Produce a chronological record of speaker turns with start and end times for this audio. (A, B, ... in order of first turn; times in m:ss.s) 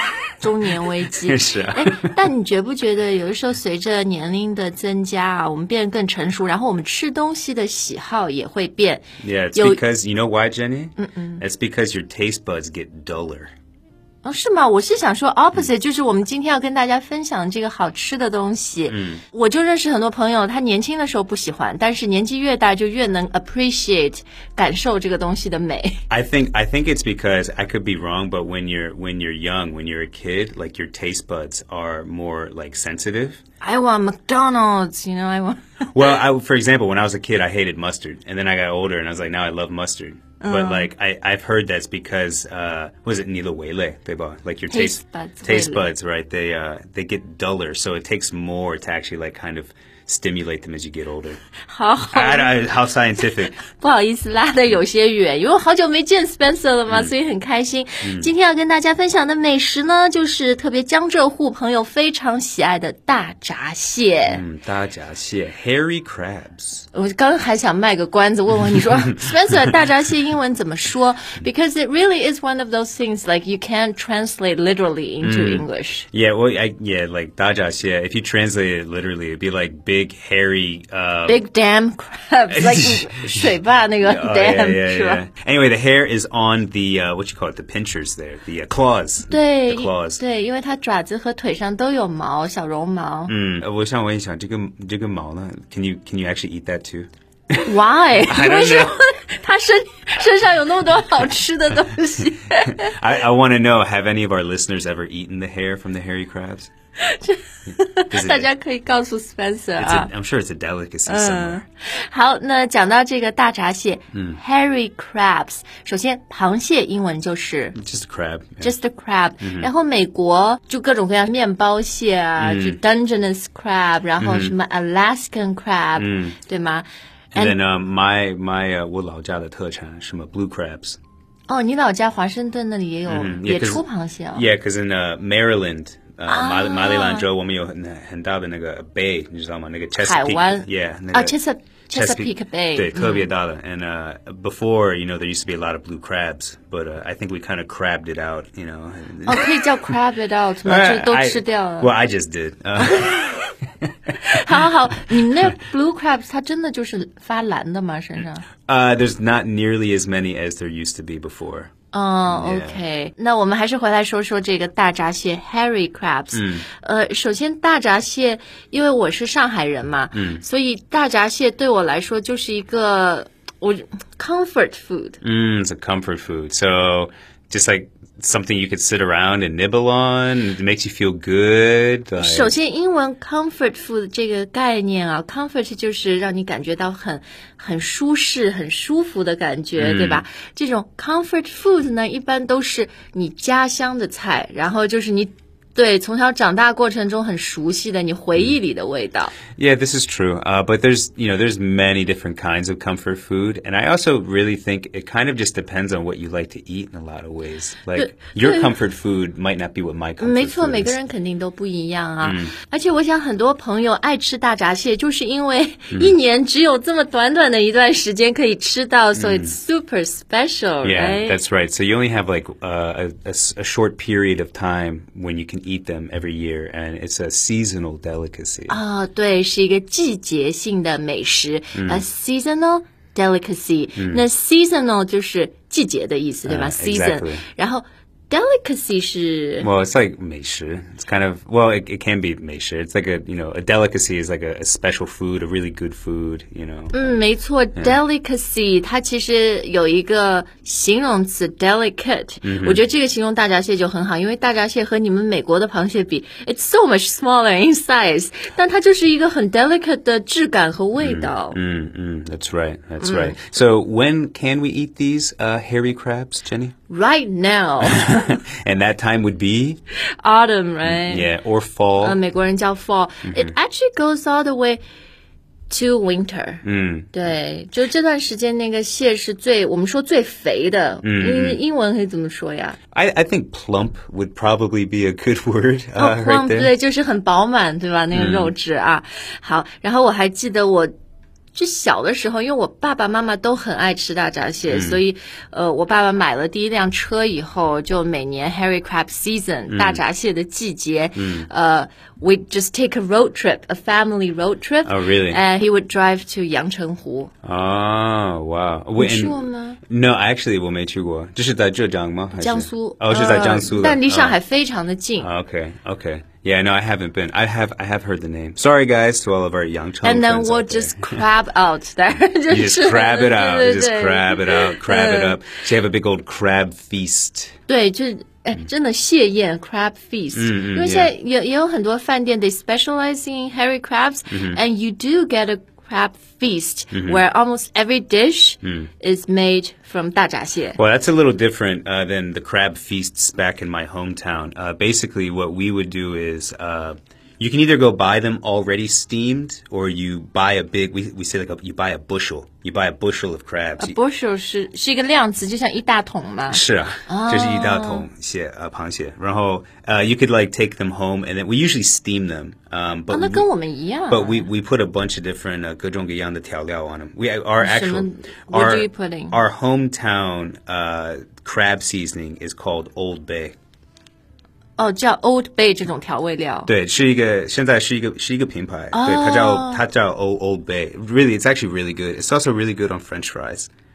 0:00.4-0:09.8 A
0:01.2-0:02.1 B
0:09.2-0:13.5 B
0:11.0-0:11.4 A
0:14.2-0:26.0 A
0:18.9-0:19.2 B
0:26.1-0:33.4 B
0:33.6-0:36.1 A
0:35.9-0:51.4 B
0:40.4-0:40.9 A
0:44.7-0:45.9 A
0:51.6-0:52.5 A
0:52.1-0:53.6 B
0:53.6-1:04.4 A
0:58.0-0:58.3 B
1:04.3-1:06.8 B
1:06.9-1:16.1 A
1:15.2-1:21.4 B
1:21.3-1:25.2 A
1:22.5-1:30.2 B
1:29.3-1:33.3 A
1:33.3-1:37.6 B
1:37.6-1:42.9 A
1:38.2-1:39.0 B
1:42.5-1:46.7 B
1:47.0-1:50.1 A
1:48.1-1:48.5 B
1:49.8-1:51.6 B
1:51.0-1:57.8 A
1:54.1-1:54.4 B
1:57.7-1:58.7 B
1:58.6-2:07.6 A
1:59.4-1:59.7 B
2:02.4-2:02.8 B
2:04.2-2:04.5 B
2:06.0-2:06.4 B
2:07.3-2:11.0 B
2:11.5-2:14.4 A
2:13.1-2:21.4 B
2:16.2-2:17.3 A
2:20.0-2:23.3 A
2:21.9-2:29.9 B
2:29.2-2:31.9 A
2:30.6-2:33.6 B
2:32.8-2:33.1 A
2:34.1-2:34.6 B
2:34.2-2:38.5 A
2:35.1-2:35.4 B
2:38.7-2:41.7 B
2:41.9-2:55.2 A
2:42.3-2:42.8 B
2:46.3-2:46.6 B
2:50.1-2:50.4 B
2:55.2-3:02.5 B
3:02.2-3:19.3 A
3:09.8-3:10.2 B
3:19.6-3:30.9 B
3:27.9-3:28.7 A
3:30.2-3:41.4 A
3:32.2-3:32.5 B
3:39.1-3:39.6 B
3:40.8-3:48.8 B
3:48.7-3:59.7 A
3:51.7-3:52.0 B
3:54.0-3:54.2 B
3:56.4-3:57.4 B
3:59.6-4:07.2 B
4:06.9-4:21.6 A
4:12.4-4:12.8 B
4:21.0-4:26.7 B
4:23.0-4:23.4 A
4:26.9-4:28.3 A
4:27.8-4:29.8 B
4:30.2-4:31.3 A
4:30.8-4:32.2 B
4:32.0-4:34.8 A
4:33.2-4:33.5 B
4:35.7-4:42.8 A
4:36.6-4:37.1 B
4:41.0-4:41.6 B
4:42.9-4:46.7 B
4:46.0-4:50.9 A
4:48.1-4:48.5 B
4:51.5-5:07.3 A
4:54.7-4:55.0 B
4:59.7-5:00.0 B
5:01.2-5:01.5 B
5:04.8-5:05.4 B
5:07.4-5:14.4 B
5:09.0-5:09.8 A
5:12.3-5:15.3 A
5:15.2-5:21.2 B
5:20.0-5:25.4 A
5:22.5-5:27.5 B
5:27.7-5:40.8 A
5:30.3-5:31.1 B
5:34.3-5:34.6 B
5:36.9-5:37.2 B
5:38.6-5:38.9 B
5:40.8-5:54.0 B
5:53.8-5:58.1 A
5:56.5-6:03.5 B
6:03.1-6:04.5 A
6:04.1-6:13.6 B
6:07.6-6:09.4 A
6:14.8-6:16.7 A
6:16.7-6:23.7 B
6:18.9-6:19.8 A